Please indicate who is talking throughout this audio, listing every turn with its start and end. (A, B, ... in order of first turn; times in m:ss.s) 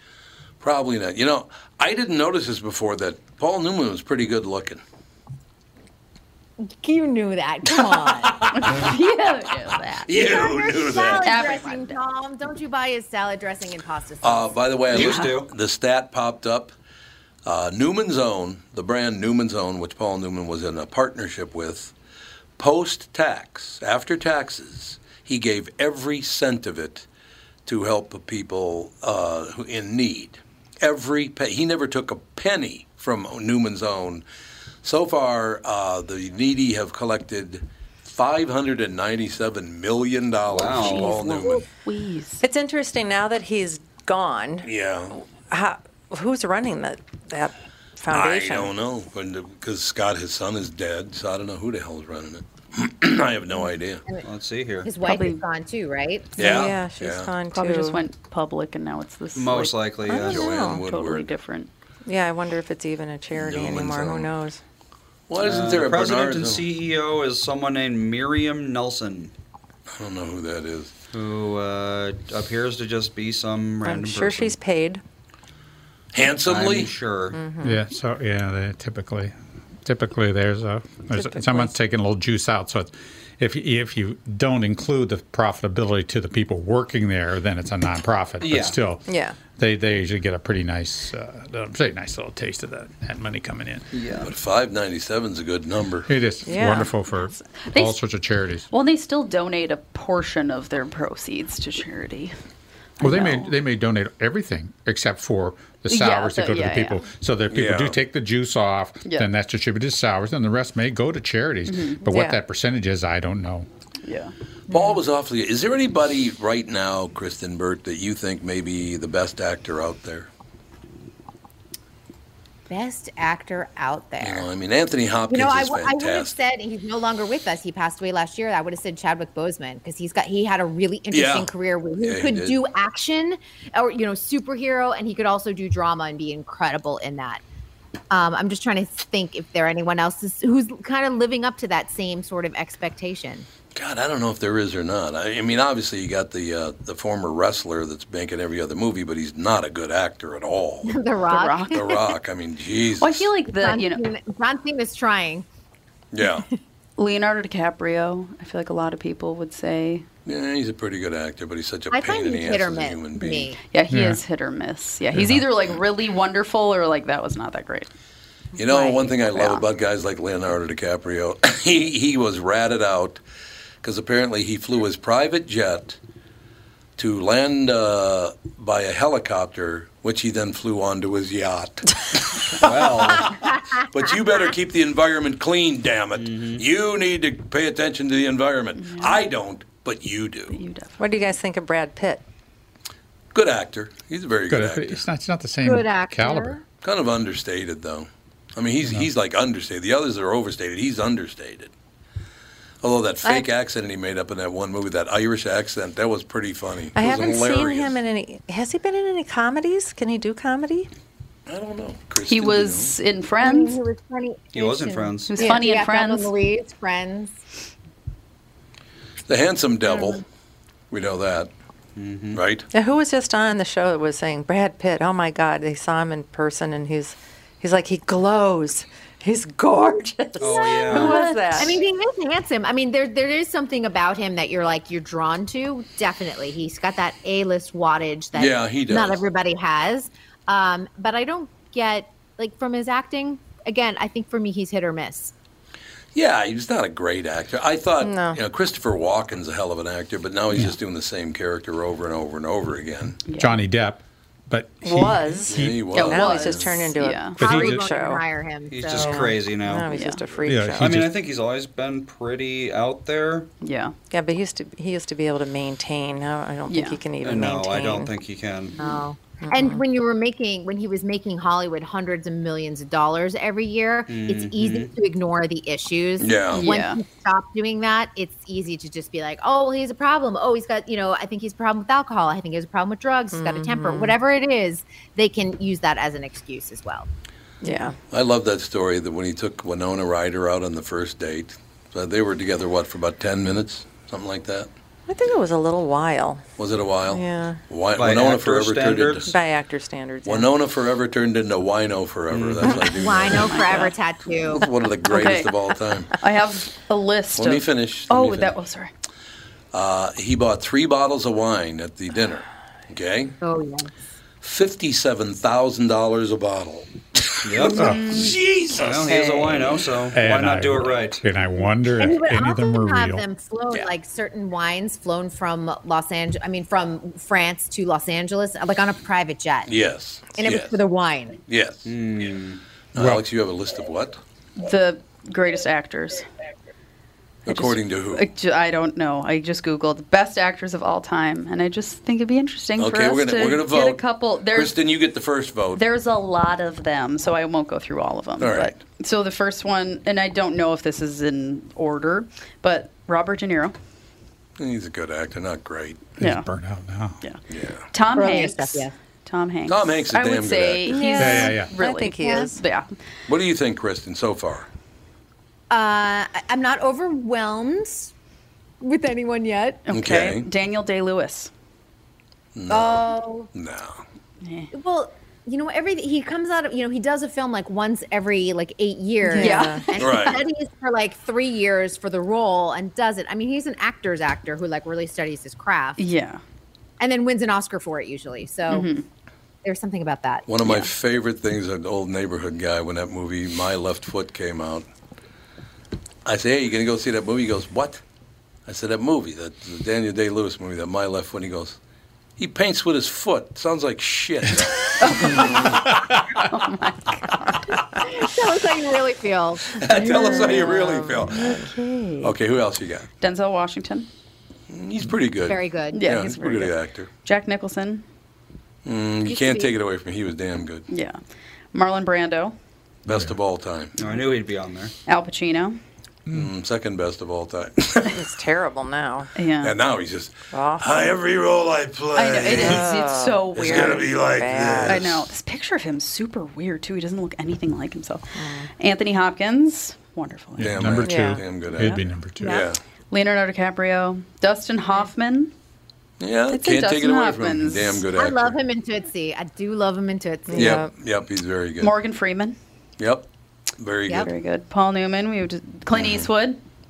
0:00.6-0:04.8 A
0:06.6-0:08.5 B
0:07.8-0:08.9 A
0:08.5-0:10.1 C
0:10.0-0:11.3 A
0:10.1-0:14.6 B
0:11.1-0:12.0 C
0:14.2-0:16.7 A
0:14.9-0:15.5 D
0:14.9-0:15.3 C
0:17.4-0:21.9 A
0:22.6-0:27.0 A
0:27.6-0:34.2 A
0:34.8-0:41.6 A
0:40.5-0:41.2 D
0:40.7-0:42.4 C
0:42.4-0:44.7 E
0:44.6-0:45.2 A
0:45.5-0:48.7 E
0:48.1-0:54.0 A
0:54.2-0:54.9 D
0:54.8-0:56.4 B
0:55.0-0:55.4 C
0:56.4-0:57.3 A
0:56.4-0:58.0 E
0:57.5-1:01.7 C
0:59.3-1:00.4 D
1:00.0-1:00.8 E
1:00.2-1:01.3 A
1:02.0-1:04.6 E
1:03.3-1:04.3 A
1:05.3-1:06.6 A
1:05.4-1:09.3 D
1:09.9-1:10.9 A
1:11.1-1:14.5 D
1:13.8-1:15.0 E
1:16.1-1:16.9 A
1:16.4-1:17.4 D
1:17.3-1:17.8 E
1:17.6-1:33.9 F
1:21.1-1:21.8 E
1:28.4-1:28.8 D
1:29.0-1:29.4 E
1:33.9-1:34.3 D
1:34.2-1:36.1 A
1:36.1-1:38.7 F
1:36.4-1:36.9 E
1:37.1-1:38.0 C
1:38.7-1:42.3 C
1:43.0-1:43.5 C
1:43.0-1:53.7 F
1:45.9-1:47.1 C
1:47.5-1:48.0 A
1:51.6-1:52.1 C
1:52.1-1:52.4 E
1:54.0-1:54.3 C
1:54.7-2:00.3 A
1:54.7-1:55.0 E
2:02.7-2:04.5 B
2:04.2-2:06.4 A
2:05.3-2:17.4 B
2:11.1-2:12.6 A
2:18.1-2:23.5 B
2:23.7-2:31.0 A
2:30.8-2:32.0 B
2:31.3-2:31.8 C
2:31.7-2:33.3 A
2:33.0-2:34.0 C
2:33.5-2:35.4 B
2:36.1-2:36.4 A
2:37.0-2:40.0 C
2:40.2-2:43.5 A
2:41.9-2:43.6 B
2:43.7-2:47.9 C
2:43.9-2:44.2 F
2:45.1-2:45.4 F
2:48.6-2:53.2 A
2:48.7-2:49.6 E
2:53.8-2:56.0 A
2:57.0-3:10.6 A
3:02.6-3:03.4 D
3:06.2-3:06.6 D
3:08.8-3:09.2 C
3:10.5-3:11.0 C
3:11.0-3:12.2 E
3:13.3-3:15.0 A
3:14.5-3:16.6 F
3:15.6-3:16.6 B
3:16.8-3:21.7 A
3:22.8-3:28.0 A
3:26.9-3:30.9 E
3:31.5-3:32.9 A
3:32.3-3:33.8 C
3:33.4-3:37.4 B
3:34.5-3:35.4 D
3:35.3-3:36.3 C
3:39.3-3:40.2 A
3:40.9-3:41.5 A
3:42.0-3:42.4 D
3:42.3-3:42.6 A
3:42.7-3:51.8 E
3:50.4-3:51.2 D
3:50.5-4:05.3 B
3:50.9-3:51.7 C
3:58.3-3:59.2 A
4:06.1-4:13.2 A
4:08.0-4:08.4 E
4:10.5-4:10.8 F
4:13.3-4:13.6 C
4:13.3-4:15.9 F
4:14.8-4:18.2 E
4:15.5-4:16.9 A
4:15.9-4:17.4 C
4:17.4-4:17.8 F
4:17.4-4:19.3 B
4:18.7-4:19.9 D
4:18.9-4:21.0 E
4:19.9-4:20.2 C
4:20.4-4:21.1 F
4:20.8-4:23.5 D
4:23.6-4:23.9 C
4:24.1-4:28.1 E
4:26.7-4:27.0 C
4:27.2-4:28.8 D
4:28.8-4:47.1 B
4:28.9-4:29.8 E
4:34.1-4:34.9 D
4:36.2-4:36.6 A
4:36.5-4:37.0 C
4:43.3-4:44.2 E
4:47.6-4:47.9 E
4:48.1-4:54.7 A
4:55.1-4:56.4 E
4:56.6-4:59.3 A
4:57.1-4:57.6 E
4:57.9-4:59.3 D
4:59.3-5:00.5 E
5:00.2-5:03.9 A
5:02.3-5:02.8 D
5:02.8-5:04.7 B
5:03.4-5:03.9 C
5:04.5-5:06.1 A
5:05.1-5:05.5 C
5:06.2-5:08.9 C
5:07.4-5:08.5 A
5:09.7-5:13.3 A
5:13.4-5:13.9 B
5:14.4-5:19.8 A
5:17.4-5:18.0 D
5:17.7-5:18.4 C
5:17.8-5:18.3 F
5:18.8-5:21.2 D
5:20.1-5:23.2 F
5:21.9-5:29.7 B
5:29.7-5:30.8 A
5:30.4-5:31.4 B
5:31.5-5:31.9 A
5:31.8-5:32.6 D
5:32.9-5:34.2 A
5:33.0-5:33.2 F
5:34.6-5:36.3 C
5:37.4-5:38.3 A
5:37.4-5:44.8 C
5:42.8-5:45.8 A
5:45.8-5:53.7 C
5:48.4-5:48.8 A
5:54.6-5:56.1 A
5:56.2-5:57.2 F
5:56.2-5:56.5 C
5:57.5-5:57.9 A
5:57.9-6:02.9 C
5:58.1-5:58.9 B
5:59.7-6:01.0 A
6:00.9-6:02.5 E
6:00.9-6:01.5 B
6:01.2-6:01.7 F
6:02.1-6:02.5 B
6:03.3-6:04.6 A
6:05.7-6:08.1 B
6:08.8-6:09.8 B
6:09.8-6:11.5 C
6:09.9-6:10.5 A
6:12.6-6:14.0 A
6:12.7-6:13.5 B
6:14.4-6:14.7 C
6:14.7-6:26.0 B
6:19.3-6:19.9 E
6:19.3-6:20.3 C
6:20.0-6:20.4 A
6:26.0-6:26.4 C
6:27.0-6:28.9 B
6:28.7-6:29.0 C
6:29.6-6:30.4 B
6:30.5-6:34.8 A
6:36.2-6:38.0 A
6:38.7-6:41.8 A
6:42.4-6:46.0 A
6:45.0-6:45.8 C
6:46.4-6:47.7 C
6:48.0-6:49.8 B
6:49.7-6:51.4 A
6:49.9-6:51.8 E
6:50.3-6:50.7 C
6:51.3-6:52.3 C
6:52.2-6:53.1 A
6:53.2-6:54.1 C
6:54.7-6:57.1 A
6:55.5-6:56.0 B
6:55.9-6:58.0 C
6:58.8-7:00.9 A
6:59.3-6:59.7 B
7:00.9-7:01.2 C
7:01.7-7:02.5 C
7:03.0-7:03.9 A
7:04.0-7:04.9 D
7:05.1-7:05.8 C
7:06.3-7:08.2 A
7:08.1-7:09.3 E
7:09.4-7:09.7 C
7:09.6-7:12.9 A
7:10.5-7:11.2 E
7:12.1-7:14.1 C
7:12.3-7:15.1 E
7:13.5-7:15.3 A
7:14.8-7:20.9 C
7:18.4-7:18.7 E
7:20.6-7:22.6 F
7:20.6-7:22.8 A
7:21.0-7:21.4 E
7:21.8-7:22.0 C
7:22.4-7:22.7 B
7:23.1-7:25.5 C
7:26.2-7:28.6 A
7:26.5-7:28.0 C
7:28.2-7:30.8 B
7:30.5-7:30.9 E
7:30.5-7:31.9 A
7:31.8-7:32.6 C
7:33.0-7:33.2 A
7:33.8-7:34.3 A
7:34.2-7:36.6 C
7:35.9-7:36.3 A